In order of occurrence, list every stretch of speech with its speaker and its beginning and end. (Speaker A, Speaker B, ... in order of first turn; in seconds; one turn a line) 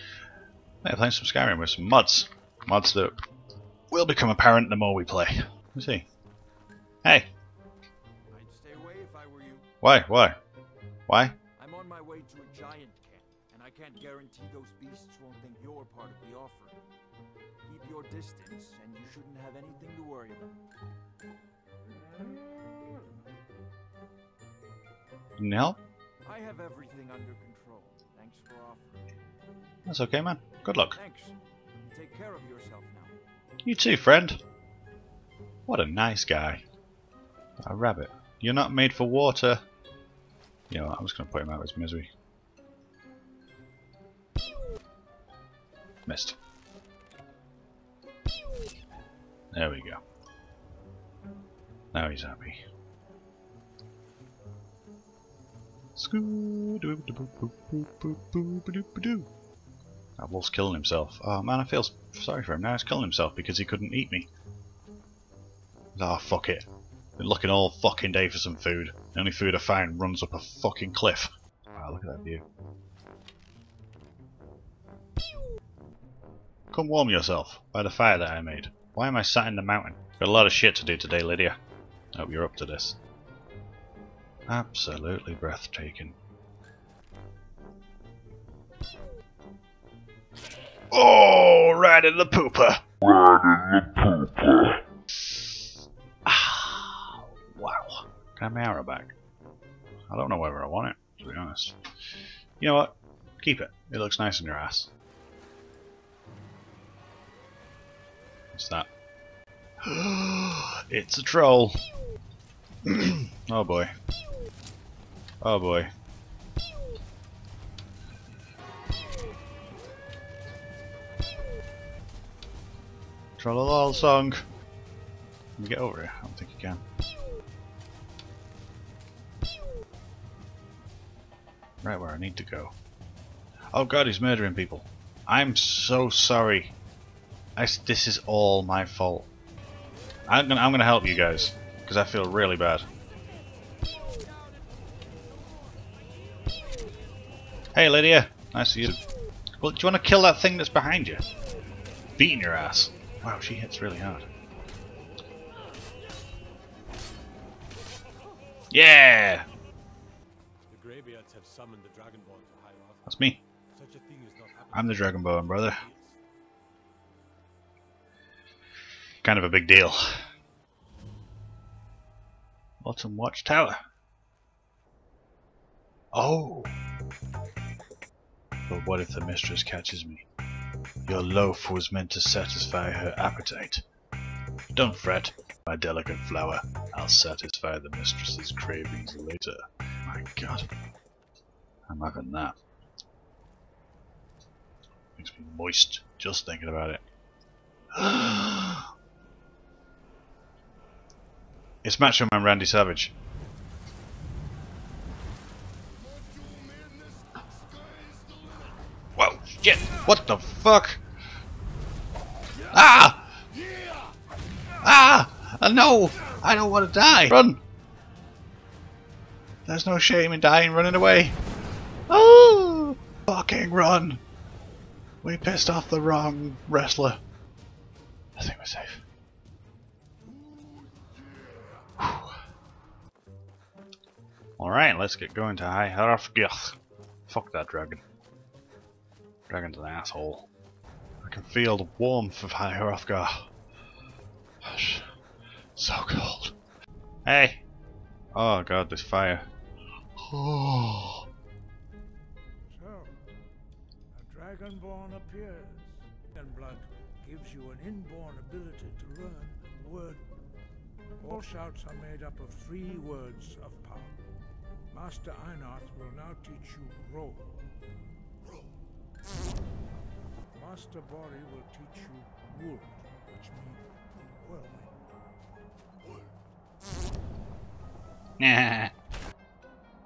Speaker A: 0.8-3.1
Speaker A: 3.9-6.1
Speaker A: 7.0-7.3
Speaker B: 8.3-9.7
Speaker A: 9.8-10.4
Speaker A: 11.1-11.3
Speaker B: 11.5-16.8
Speaker B: 17.6-20.6
Speaker A: 25.4-25.8
Speaker B: 26.2-29.0
Speaker A: 29.8-31.0
Speaker B: 30.9-33.2
Speaker A: 33.6-34.4
Speaker A: 35.6-36.6
Speaker A: 37.6-39.6
Speaker A: 40.7-42.1
Speaker A: 46.0-46.4
Speaker A: 49.5-50.0
Speaker A: 51.9-52.6
Speaker A: 56.0-59.3
Speaker A: 60.2-64.3
Speaker A: 65.9-72.4
Speaker A: 76.7-81.6
Speaker A: 82.1-83.0
Speaker A: 84.5-86.2
Speaker A: 90.9-94.3
Speaker A: 95.2-95.6
Speaker A: 96.2-99.1
Speaker A: 100.1-101.8
Speaker A: 102.6-104.9
Speaker A: 108.5-108.9
Speaker A: 109.8-111.8
Speaker A: 112.8-113.9
Speaker A: 115.4-115.9
Speaker A: 123.4-124.4
Speaker A: 125.6-126.8
Speaker A: 131.8-132.7
Speaker A: 133.7-136.8
Speaker A: 137.6-139.3
Speaker A: 140.3-142.9
Speaker A: 147.7-149.0
Speaker A: 149.6-151.2
Speaker A: 152.2-154.3
Speaker A: 158.7-159.5
Speaker C: 160.7-163.0
Speaker A: 163.1-163.4
Speaker C: 163.7-165.1
Speaker A: 164.7-165.8
Speaker A: 169.2-170.2
Speaker A: 172.8-173.8
Speaker A: 176.1-176.7
Speaker A: 178.7-180.2
Speaker A: 181.0-183.8
Speaker A: 184.7-190.7
Speaker A: 191.9-192.5
Speaker A: 195.2-197.0
Speaker A: 197.9-198.9
Speaker A: 201.8-203.1
Speaker D: 206.6-207.1
Speaker A: 209.2-211.0
Speaker A: 212.7-213.4
Speaker A: 214.8-217.6
Speaker A: 219.7-221.4
Speaker A: 222.1-224.2
Speaker A: 225.2-227.2
Speaker A: 228.4-229.0
Speaker A: 232.0-232.4
Speaker A: 234.6-238.0
Speaker A: 239.5-240.5
Speaker A: 241.2-243.5
Speaker A: 244.6-245.1
Speaker A: 245.8-246.6
Speaker A: 247.2-247.6
Speaker A: 248.3-249.5
Speaker A: 250.2-251.3
Speaker D: 252.7-253.2
Speaker D: 254.1-260.2
Speaker D: 261.1-264.2
Speaker D: 264.9-267.6
Speaker D: 270.5-273.8
Speaker D: 274.4-274.9
Speaker A: 278.4-278.9